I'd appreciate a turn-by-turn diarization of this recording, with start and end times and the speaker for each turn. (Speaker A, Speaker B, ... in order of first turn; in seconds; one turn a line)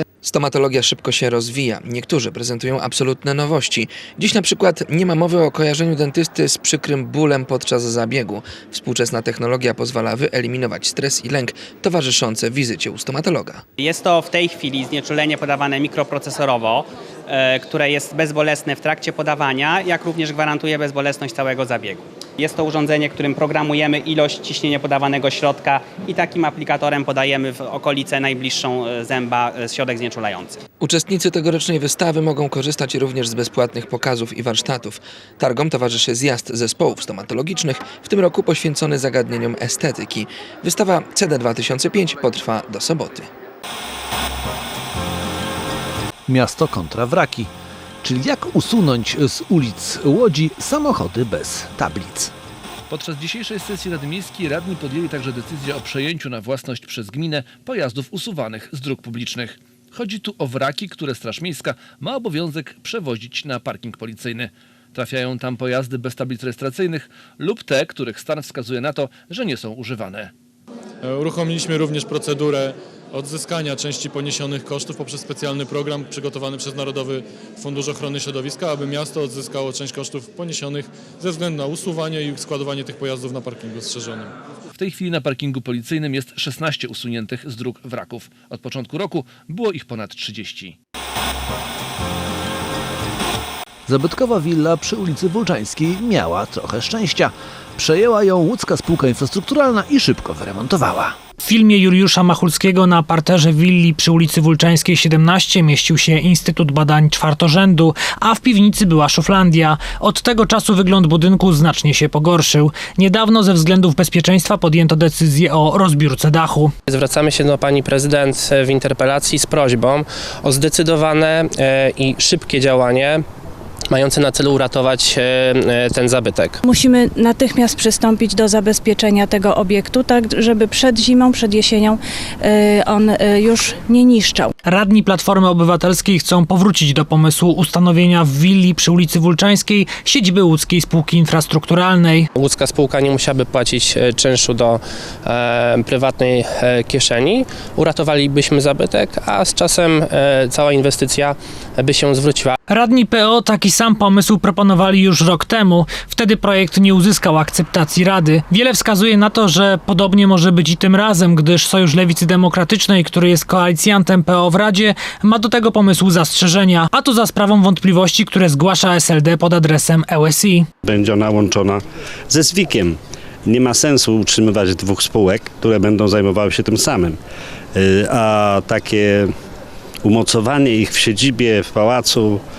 Speaker A: 0.2-13.6
Speaker B: 13.8-30.6
Speaker A: 30.8-43.3
Speaker C: 46.3-47.5
Speaker C: 48.0-52.3
Speaker D: 52.9-70.3
Speaker E: 71.0-84.3
Speaker D: 84.8-90.8
Speaker C: 93.9-101.2
Speaker F: 101.4-116.7
Speaker G: 116.9-123.2
Speaker G: 123.9-126.6
Speaker H: 126.6-134.5
Speaker F: 134.7-142.3
Speaker G: 142.4-152.6
Speaker F: 152.7-170.7
Speaker I: 170.8-177.2
Speaker I: 177.8-179.3
Speaker I: 180.0-182.4